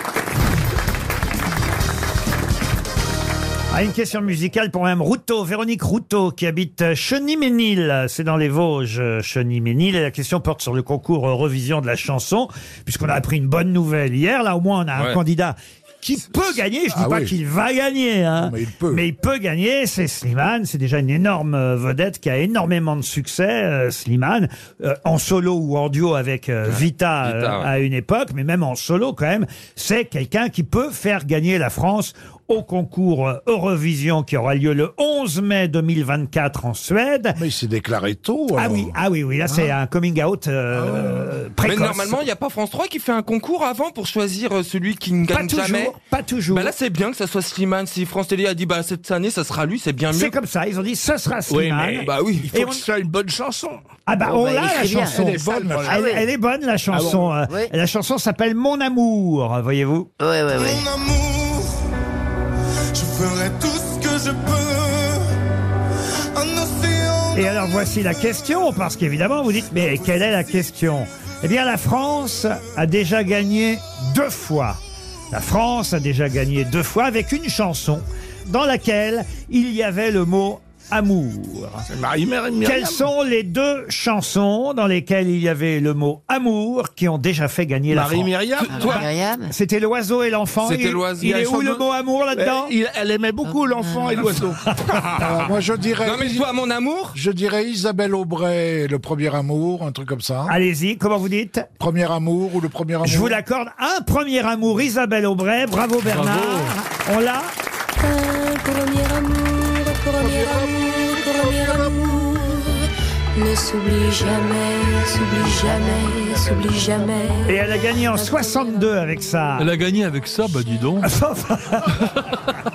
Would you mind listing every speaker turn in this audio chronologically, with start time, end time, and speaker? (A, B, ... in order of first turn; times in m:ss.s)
0:03.7-0:37.4 A
0:16.9-0:17.3 B
0:18.4-0:19.0 B
0:26.7-0:27.7 C
0:37.4-0:39.0 B
0:38.6-0:42.2 A
0:39.5-0:39.7 B
0:40.7-0:41.4 B
0:41.6-0:46.0 C
0:45.3-0:46.7 A
0:46.5-0:50.4 C
0:50.1-0:52.8 A
0:51.5-0:53.8 D
0:52.0-0:52.5 C
0:54.1-1:00.1 A
0:54.2-0:55.2 E
0:55.1-0:56.1 D
0:55.2-0:56.0 B
0:55.8-0:56.2 E
0:56.9-0:57.3 D
0:57.5-0:57.7 E
1:00.2-1:00.9 E
1:00.6-1:01.8 F
1:02.9-1:05.3 F
1:06.4-1:07.5 F
1:07.3-1:14.8 A
1:15.3-1:21.9 A
1:21.9-1:23.0 D
1:22.6-1:32.7 A
1:27.9-1:29.0 D
1:28.6-1:29.0 C
1:28.7-1:29.5 E
1:30.6-1:31.4 C
1:31.2-1:34.6 D
1:33.4-1:34.3 E
1:34.8-1:35.2 A
1:35.1-1:36.5 B
1:36.0-1:37.2 C
1:37.1-1:40.5 B
1:40.5-1:41.7 A
1:41.8-1:43.4 B
1:43.0-1:47.5 A
1:46.0-1:46.8 G
1:50.2-1:52.0 B
1:51.4-1:51.9 H
1:53.5-1:57.3 H
1:57.5-1:59.7 A
1:59.6-2:01.1 G
2:01.0-2:02.0 A